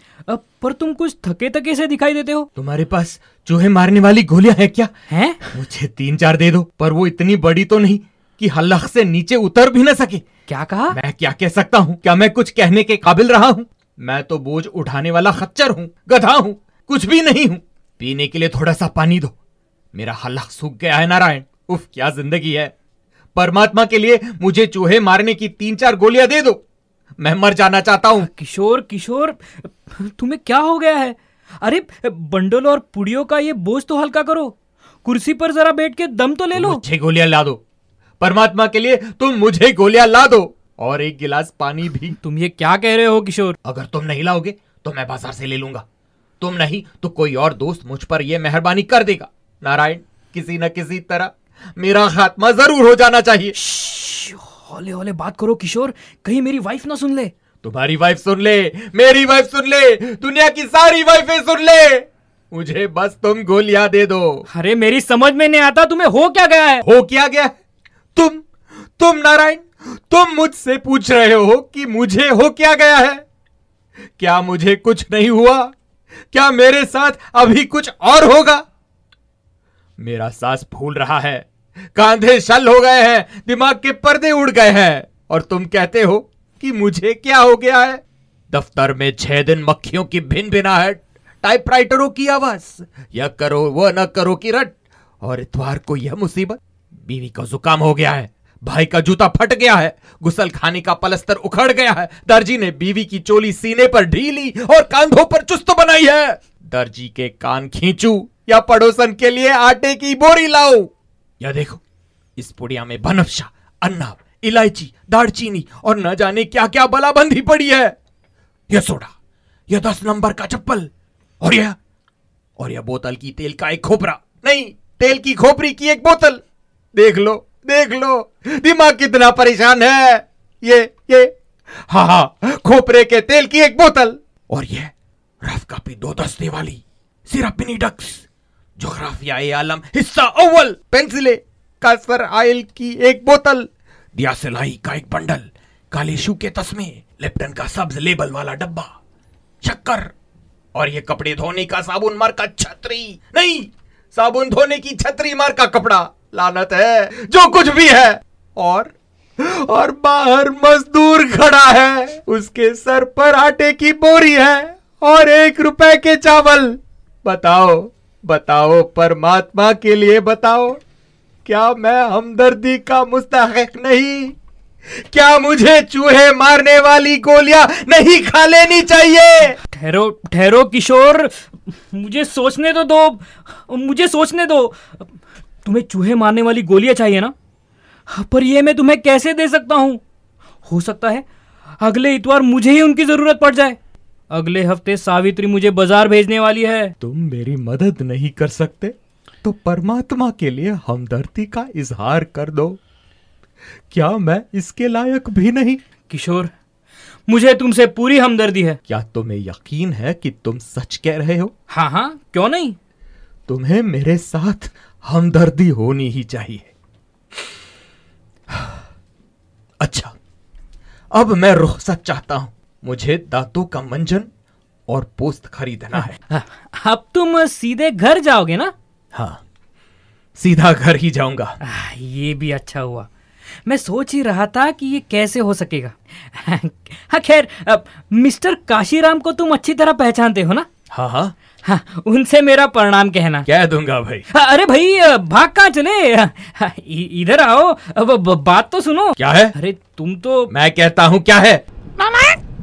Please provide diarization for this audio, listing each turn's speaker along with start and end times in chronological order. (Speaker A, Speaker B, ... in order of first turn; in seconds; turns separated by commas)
Speaker A: 0.3-2.5, Speaker B: 2.5-4.9, Speaker A: 5.1-5.5, Speaker B: 5.5-10.2, Speaker A: 10.5-11.0, Speaker B: 10.9-19.3, Speaker B: 19.9-22.7, Speaker B: 23.3-26.6, Speaker B: 27.2-28.3, Speaker A: 28.2-36.8, Speaker B: 36.5-37.6, Speaker B: 38.2-42.1, Speaker A: 42.2-43.5, Speaker B: 43.6-45.8, Speaker B: 46.4-53.5, Speaker A: 53.5-57.3, Speaker B: 57.6-64.5, Speaker A: 64.5-66.8, Speaker B: 66.8-67.5, Speaker B: 68.2-68.5, Speaker B: 69.0-73.2, Speaker B: 74.2-75.7, Speaker B: 76.3-78.6, Speaker B: 80.0-88.0, Speaker B: 88.5-111.8, Speaker B: 112.4-117.9, Speaker B: 118.7-119.1, Speaker B: 119.7-121.8, Speaker B: 122.6-126.4, Speaker B: 126.9-131.3, Speaker B: 131.9-138.2, Speaker B: 138.8-148.9, Speaker B: 149.6-150.1, Speaker B: 150.7-170.8, Speaker B: 171.4-174.3, Speaker B: 175.1-179.6, Speaker A: 179.6-185.0, Speaker A: 185.6-187.3, Speaker A: 188.1-190.0, Speaker A: 190.6-191.2, Speaker A: 191.8-193.8, Speaker A: 194.3-196.9, Speaker B: 197.0-202.8, Speaker B: 203.9-205.8, Speaker A: 206.1-206.5, Speaker A: 207.3-208.8, Speaker B: 208.9-211.5, Speaker A: 211.7-212.8, Speaker B: 213.5-216.7, Speaker B: 218.5-218.8, Speaker B: 219.8-220.1, Speaker B: 221.1-224.3, Speaker B: 224.9-226.2, Speaker A: 226.1-228.7, Speaker B: 229.1-229.4, Speaker B: 230.3-231.5, Speaker A: 231.6-233.1, Speaker A: 233.6-240.7, Speaker B: 240.9-241.3, Speaker A: 241.6-243.4, Speaker B: 243.4-244.2, Speaker A: 244.3-250.5, Speaker B: 249.2-249.5, Speaker B: 250.5-251.6, Speaker A: 252.0-252.4